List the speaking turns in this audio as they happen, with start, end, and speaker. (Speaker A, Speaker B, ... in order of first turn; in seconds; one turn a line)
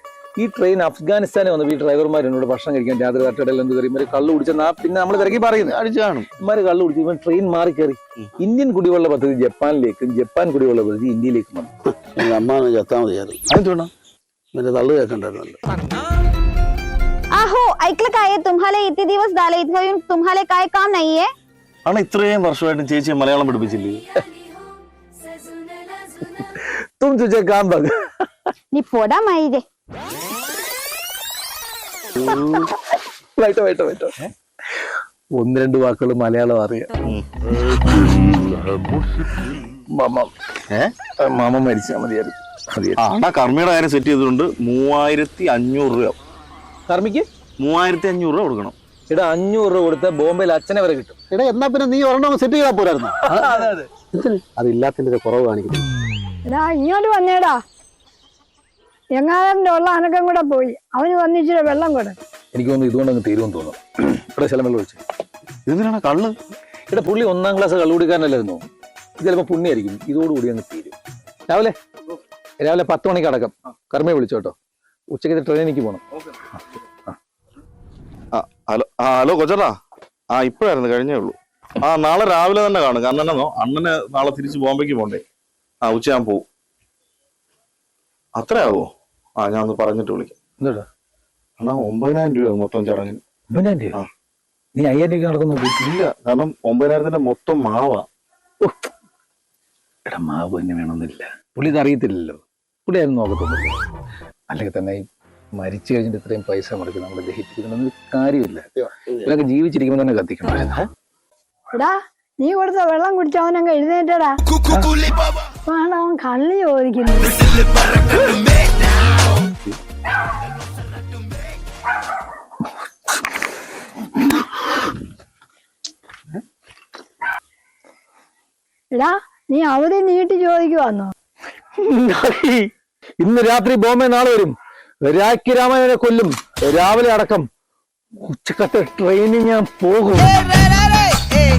Speaker A: 0.4-5.8
Speaker B: 5.5-6.3
Speaker A: 6.4-11.7
Speaker C: 12.0-13.4
Speaker B: 13.5-13.9
Speaker C: 14.5-15.6
Speaker D: 17.3-21.3
Speaker B: 21.9-24.1
Speaker A: 26.5-28.3
Speaker D: 28.7-29.6
Speaker A: 33.4-34.2
Speaker A: 35.4-36.9
Speaker B: 37.0-38.5
Speaker A: 39.9-40.3
Speaker A: 41.2-43.0
Speaker B: 43.0-46.2
Speaker A: 46.9-47.3
Speaker B: 47.6-48.8
Speaker A: 49.1-51.2
Speaker E: 51.3-53.6
Speaker A: 53.3-53.9
Speaker E: 54.1-55.9
Speaker F: 56.5-57.6
Speaker F: 59.1-62.2
Speaker A: 62.5-65.0
Speaker B: 65.7-66.4
Speaker A: 66.9-68.7
Speaker A: 69.2-71.0
Speaker A: 71.5-71.8
Speaker A: 72.6-74.5
Speaker A: 75.1-76.0
Speaker B: 78.3-79.8
Speaker B: 80.3-85.2
Speaker B: 85.8-86.5
Speaker B: 88.4-90.3
Speaker B: 91.6-93.2
Speaker A: 93.5-94.0
Speaker A: 94.8-95.8
Speaker B: 95.8-98.1
Speaker A: 98.6-98.9
Speaker A: 100.1-103.8
Speaker A: 104.5-110.8
Speaker F: 111.7-114.4
Speaker A: 114.7-115.0
Speaker F: 115.7-117.4
Speaker F: 128.9-131.1
Speaker A: 131.8-137.5
Speaker A: 138.2-140.3
Speaker B: 140.4-140.8